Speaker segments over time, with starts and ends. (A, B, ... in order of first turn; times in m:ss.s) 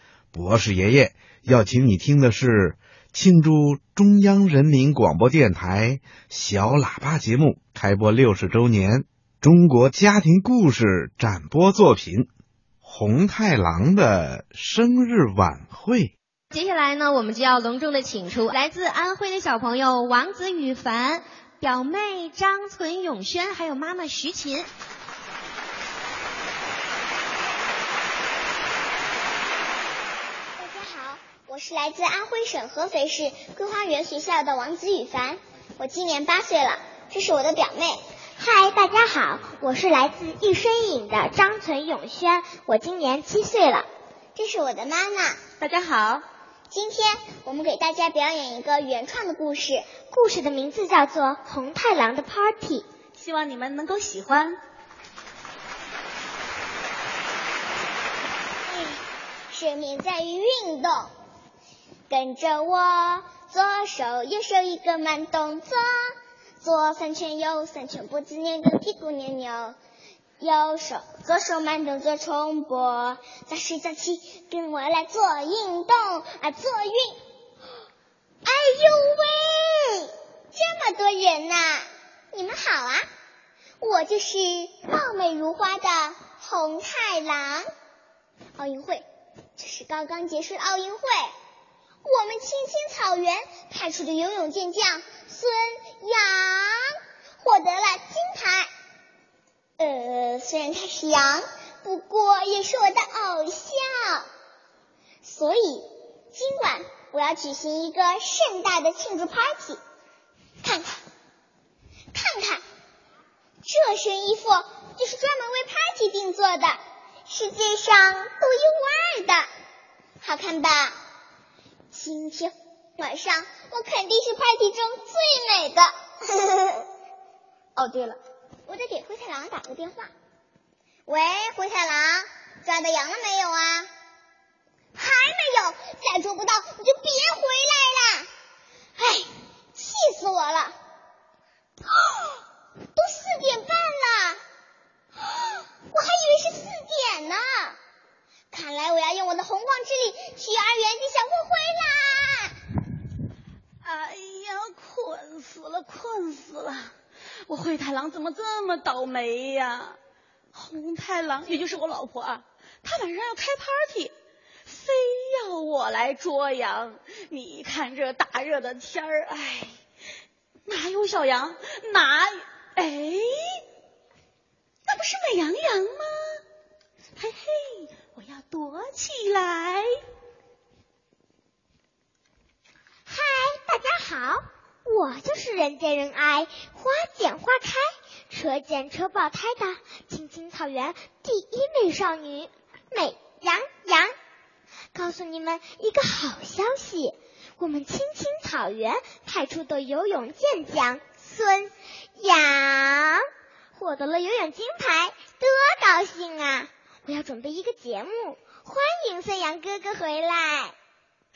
0:00.3-0:12.3 A
0:12.8-0:16.1 A
0:16.5-0:24.7 B
0:30.6-0:38.0 C
0:38.4-0:43.9 D
0:44.3-0:45.4 C
0:45.6-0:46.2 E
0:46.7-0:49.9 C
0:50.1-0:52.8 D
0:53.2-0:54.6 E
0:58.7-1:01.1 C
1:02.1-1:09.8 C
1:10.4-1:17.2 C
1:18.4-1:23.0 C
1:23.8-1:27.7 C
1:28.6-1:29.0 C
1:29.6-1:31.3 C
1:32.0-1:38.7 C
1:39.8-1:44.3 C
1:45.2-1:49.8 C
1:50.6-1:51.0 C
1:52.1-1:52.6 C
1:53.6-1:56.8 C
1:57.3-1:59.5 C
2:00.2-2:01.0 C
2:01.9-2:06.9 C
2:07.8-2:08.2 C
2:08.7-2:10.1 C
2:11.1-2:13.9 C
2:15.0-2:18.3 C
2:19.0-2:20.7 C
2:23.0-2:24.4 C
2:25.9-2:27.8 C
2:28.5-2:32.5 C
2:33.8-2:36.9 E
2:37.5-2:40.0 E
2:40.5-2:44.1 E
2:44.6-2:49.8 E
2:50.6-2:53.6 E
2:54.9-2:56.4 E
2:57.2-2:59.9 E
3:03.0-3:14.1 D
3:14.9-3:30.7 D